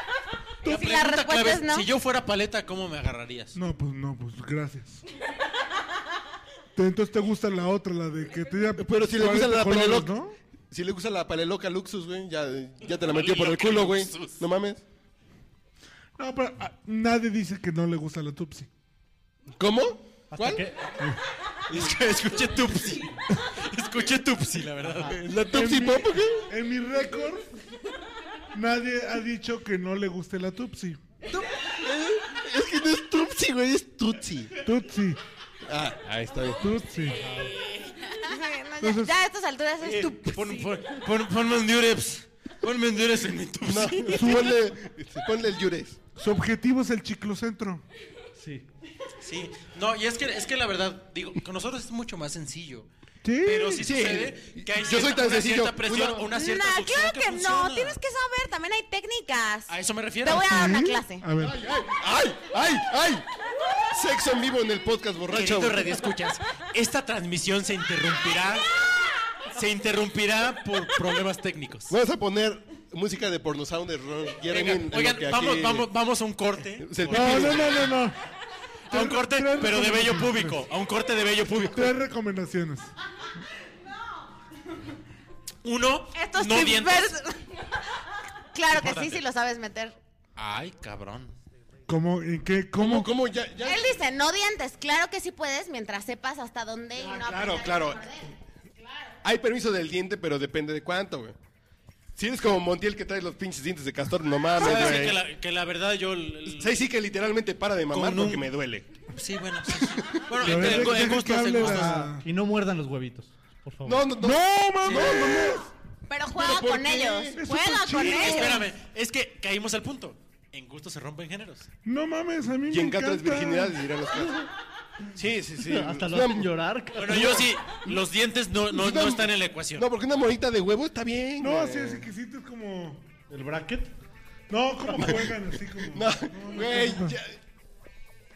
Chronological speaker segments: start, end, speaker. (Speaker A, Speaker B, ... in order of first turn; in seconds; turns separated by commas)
Speaker A: 0.6-1.9, Speaker B: 0.6-3.6, Speaker C: 3.5-5.0, Speaker C: 6.7-10.3, Speaker D: 8.8-10.2, Speaker D: 10.7-14.8, Speaker B: 12.8-14.4, Speaker C: 16.2-18.7, Speaker D: 19.6-20.6, Speaker E: 20.3-21.1, Speaker B: 21.7-25.2, Speaker E: 24.8-25.2, Speaker D: 25.1-26.5, Speaker C: 25.4-27.5, Speaker C: 28.5-31.0, Speaker D: 31.3-34.6, Speaker C: 34.6-35.2, Speaker D: 35.6-36.7, Speaker C: 36.6-37.2, Speaker B: 37.2-37.7, Speaker A: 38.1-40.8, Speaker C: 38.8-39.1, Speaker B: 39.8-44.5, Speaker D: 43.6-46.0, Speaker C: 44.1-44.6, Speaker C: 46.1-47.8, Speaker E: 48.4-48.7, Speaker B: 49.2-52.9, Speaker C: 53.2-53.8, Speaker B: 53.4-58.0, Speaker D: 53.7-56.3, Speaker A: 56.3-61.2, Speaker B: 59.7-60.6, Speaker C: 60.4-61.6, Speaker D: 61.4-63.2, Speaker D: 63.9-65.9, Speaker B: 65.3-68.7, Speaker B: 69.5-71.9, Speaker D: 71.9-75.9, Speaker B: 74.5-77.9, Speaker D: 76.8-77.9, Speaker C: 77.1-78.2, Speaker C: 78.9-80.6, Speaker B: 78.9-81.9, Speaker C: 81.7-82.9, Speaker B: 85.6-87.2, Speaker A: 86.1-87.6, Speaker A: 88.5-90.0, Speaker B: 88.7-89.2, Speaker B: 90.3-91.3, Speaker C: 91.9-93.1, Speaker D: 92.8-93.8, Speaker A: 93.6-99.1, Speaker D: 97.0-98.0, Speaker D: 99.2-101.3, Speaker D: 102.2-105.2, Speaker B: 104.5-106.8, Speaker D: 106.5-108.9, Speaker B: 107.9-108.5, Speaker B: 109.1-112.0, Speaker D: 109.7-111.1, Speaker C: 110.4-112.2, Speaker E: 111.6-114.1, Speaker D: 113.8-115.7, Speaker C: 114.2-115.7, Speaker B: 114.8-115.2, Speaker A: 116.1-118.7, Speaker D: 116.3-117.4, Speaker C: 117.3-118.6, Speaker B: 118.0-121.7, Speaker C: 121.8-123.8, Speaker D: 122.7-124.5, Speaker D: 125.1-128.0, Speaker E: 125.6-127.3, Speaker B: 126.9-129.9, Speaker D: 128.7-132.1, Speaker C: 131.4-133.1, Speaker E: 133.3-133.9, Speaker C: 134.5-137.1, Speaker D: 134.9-135.3, Speaker D: 135.8-137.4